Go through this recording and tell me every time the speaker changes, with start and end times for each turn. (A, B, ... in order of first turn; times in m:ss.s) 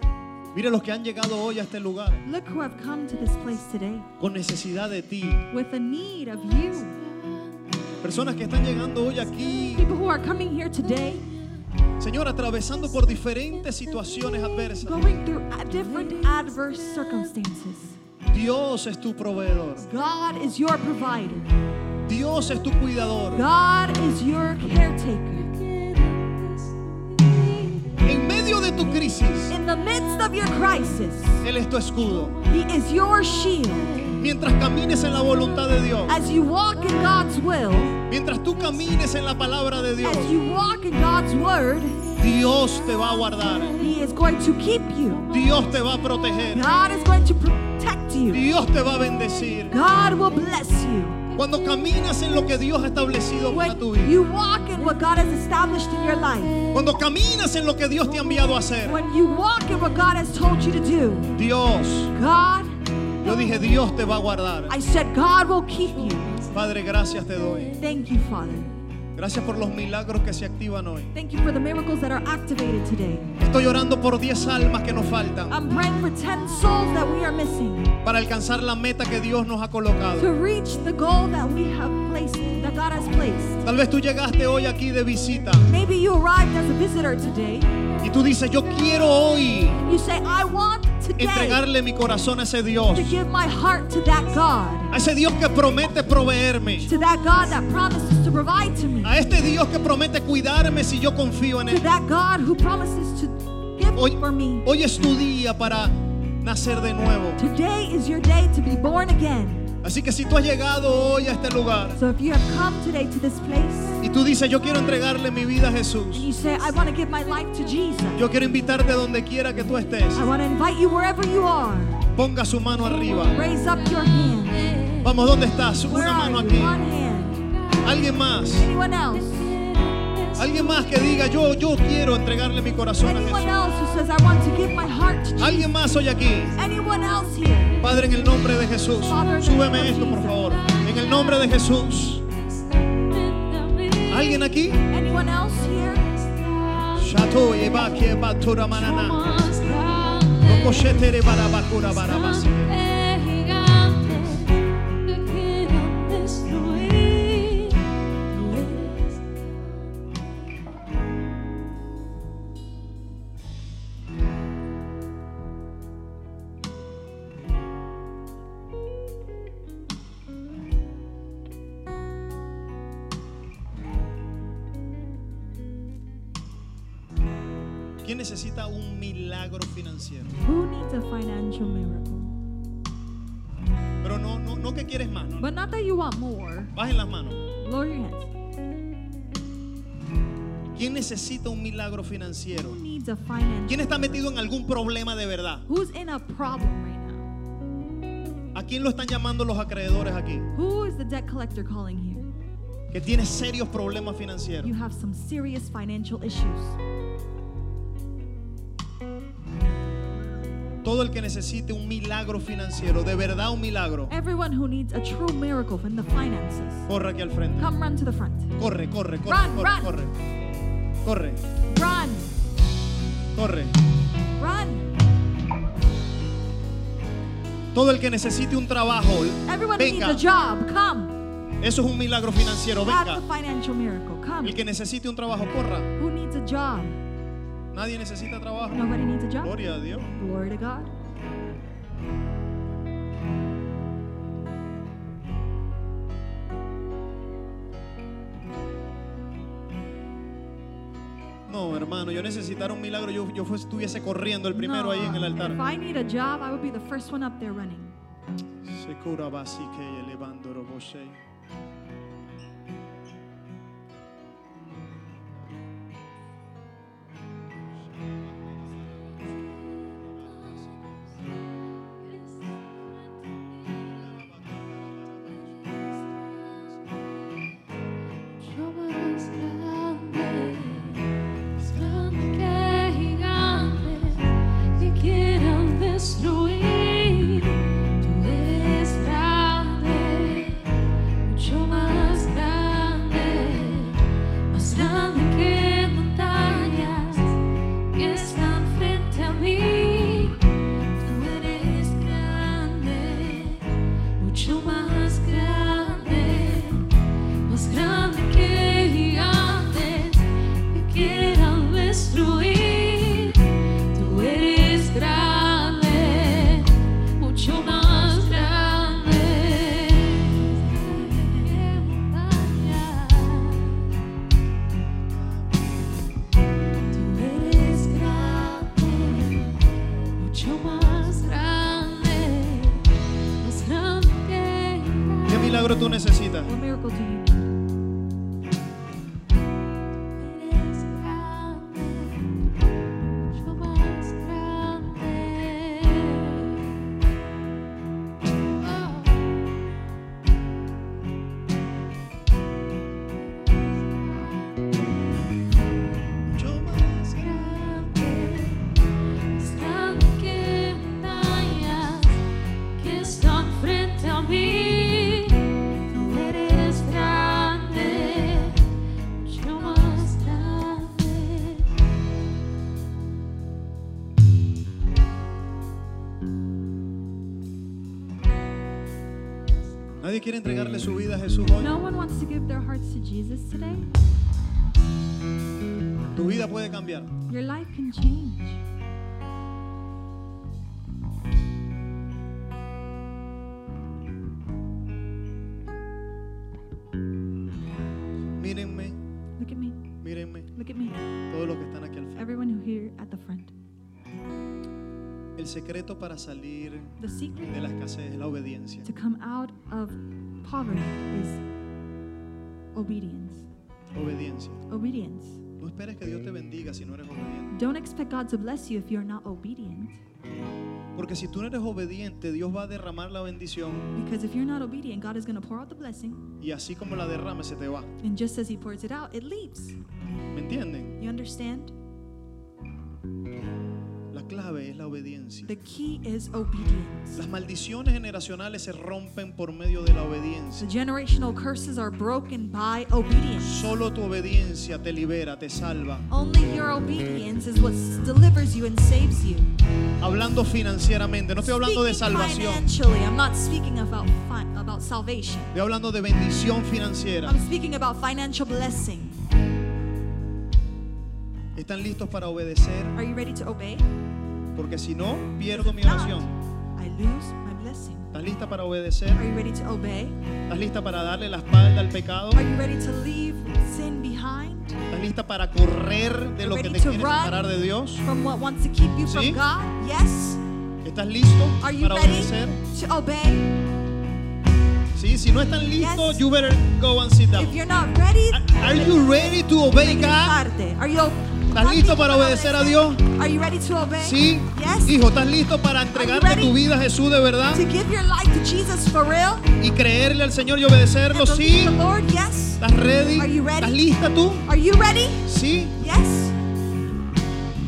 0:00.5-0:02.2 A
0:02.2-0:04.1 B
0:04.2-0:05.5 A
0:05.5-0:07.0 B
0:06.7-0:07.8 C
0:08.0-0:09.9 A
0:09.6-0:11.3 B
0:12.0-0:15.0 A
0:14.8-0:18.0 B
0:16.0-0:16.6 C
0:18.3-0:19.9 A
0:19.8-0:21.5 B
0:22.0-0:23.5 A
0:23.3-0:25.5 B
0:25.5-0:28.0 C
0:28.0-0:29.6 A
0:29.5-0:31.4 B
0:31.4-0:32.4 A
0:32.4-0:34.0 B
0:34.2-0:36.2 A
0:36.1-0:38.0 B
0:38.1-0:40.4 A
0:40.0-0:42.0 B
0:42.2-0:43.9 A
0:43.8-0:45.3 B
0:45.3-0:46.7 A
0:46.5-0:48.4 B
0:48.3-0:49.8 A
0:49.7-0:51.2 B
0:51.3-0:54.2 A
0:53.5-0:56.6 B
0:56.7-0:59.0 A
0:58.8-1:01.3 B
1:01.4-1:02.1 A
1:02.1-1:02.7 B
1:03.2-1:04.8 A
1:04.7-1:06.4 B
1:06.5-1:07.8 A
1:07.8-1:08.7 B
1:09.2-1:11.1 A
1:11.1-1:13.3 B
1:13.4-1:15.6 A
1:15.5-1:17.9 B
1:18.0-1:20.3 A
1:20.2-1:23.6 B
1:23.6-1:25.7 A
1:25.7-1:27.8 B
1:28.0-1:29.8 A
1:29.8-1:31.6 B
1:31.2-1:33.2 A
1:32.9-1:34.9 B
1:34.9-1:36.9 A
1:36.8-1:39.2 B
1:39.0-1:41.8 A
1:41.7-1:44.6 B
1:43.9-1:47.4 A
1:47.4-1:49.7 B
1:49.8-1:52.0 A
1:52.0-1:54.0 B
1:54.0-1:56.3 A
1:56.1-1:58.3 B
1:58.1-2:00.3 A
2:00.1-2:02.1 B
2:02.1-2:03.4 A
2:02.9-2:05.1 C
2:03.3-2:04.7 B
2:05.0-2:06.8 A
2:05.8-2:07.4 B
2:07.8-2:08.7 A
2:08.6-2:09.6 B
2:09.2-2:11.0 C
2:10.4-2:13.5 A
2:13.0-2:15.7 B
2:15.4-2:16.6 A
2:16.6-2:17.8 B
2:17.8-2:22.2 A
2:19.1-2:20.8 B
2:20.8-2:21.5 C
2:22.3-2:24.5 C
2:24.1-2:24.8 A
2:24.9-2:26.1 B
2:25.6-2:27.2 C
2:27.0-2:29.2 A
2:28.7-2:39.6 C
2:30.4-2:32.7 A
2:58.0-3:00.4 A
3:00.4-3:02.3 B
3:04.0-3:05.5 A
3:05.4-3:06.7 B
3:06.7-3:07.4 A
3:07.6-3:08.3 B
3:10.7-3:12.8 A
3:12.5-3:14.2 B
3:13.7-3:15.6 A
3:15.7-3:17.3 B
3:18.5-3:20.5 A
3:20.5-3:22.3 B
3:22.9-3:24.7 A
3:24.6-3:26.8 B
3:30.8-3:34.1 A
3:34.1-3:36.9 B
3:36.9-3:37.7 A
3:37.6-3:38.5 B
3:38.6-3:40.1 A
3:39.3-3:39.9 B
3:41.0-3:41.4 A
3:41.7-3:42.3 B
3:43.3-3:43.7 A
3:44.4-3:44.9 B
3:47.7-3:50.2 A
3:49.4-3:51.2 B
3:51.6-3:53.2 A
3:52.8-3:54.6 B
3:54.4-3:55.9 A
3:56.0-3:57.0 B
3:57.7-3:58.9 A
3:58.7-3:59.6 B
3:59.4-4:00.1 A
4:00.1-4:00.9 B
4:11.5-4:15.6 A
4:14.5-4:17.9 B
4:18.6-4:21.2 A
4:38.4-4:41.0 C
4:41.6-4:57.4 C
4:57.9-5:00.5 C
5:01.0-5:23.9 C
5:26.9-5:29.4 C
5:30.2-5:32.8 C
5:33.4-5:35.8 C
5:35.3-5:36.5 A
5:36.4-5:37.5 B
5:40.1-5:42.3 C
5:43.3-5:46.7 C
5:48.6-5:49.3 C
5:53.5-5:54.5 C
5:56.2-5:57.4 A
5:57.2-5:58.8 C
5:59.3-6:02.2 C
6:02.8-6:11.7 C
6:20.0-6:21.7 A
6:21.6-6:23.9 B
6:26.1-6:27.1 A
6:27.3-6:28.6 B
6:38.4-6:39.0 A
6:39.4-6:39.8 B
6:40.0-6:40.5 A
6:40.5-6:41.0 B
6:41.3-6:42.3 A
6:42.2-6:43.5 B
6:45.4-6:47.0 A
6:47.0-6:47.5 B
6:47.5-6:48.9 A
6:48.8-6:51.4 B
6:52.7-6:53.4 B
6:53.9-6:54.6 A
6:54.7-6:55.4 B
6:55.6-6:57.5 A
6:57.5-7:00.0 B
7:00.9-7:03.9 A
7:03.9-7:06.2 B
7:06.4-7:07.9 A
7:08.0-7:09.8 B
7:10.3-7:11.0 A
7:11.0-7:11.7 B
7:14.1-7:15.5 A
7:15.4-7:17.2 B
7:17.2-7:20.7 A
7:20.6-7:23.6 B
7:23.4-7:26.0 A
7:26.1-7:29.5 B
7:30.0-7:32.7 A
7:31.4-7:35.5 B
7:35.5-7:37.4 A
7:37.2-7:39.2 B
7:41.5-7:42.9 A
7:42.9-7:43.8 B
7:44.5-7:46.3 A
7:45.5-7:48.1 B
7:48.1-7:49.2 A
7:49.2-7:50.2 B
7:50.5-7:52.4 A
7:52.3-7:54.8 B
7:54.9-7:58.0 A
7:56.4-7:57.4 B
7:58.0-8:00.4 B
7:59.0-7:59.4 A
8:00.8-8:02.6 A
8:01.6-8:03.5 B
8:04.9-8:07.6 A
8:05.8-8:06.2 B
8:07.3-8:15.0 B
8:08.3-8:10.4 A
8:11.5-8:13.0 A
8:14.0-8:17.6 A
8:15.9-8:16.6 B
8:17.5-8:19.5 B
8:19.6-8:21.8 A
8:21.1-8:22.6 B
8:22.6-8:24.5 A
8:23.2-8:23.8 B
8:24.4-8:25.2 B
8:25.2-8:25.8 A
8:25.8-8:26.3 B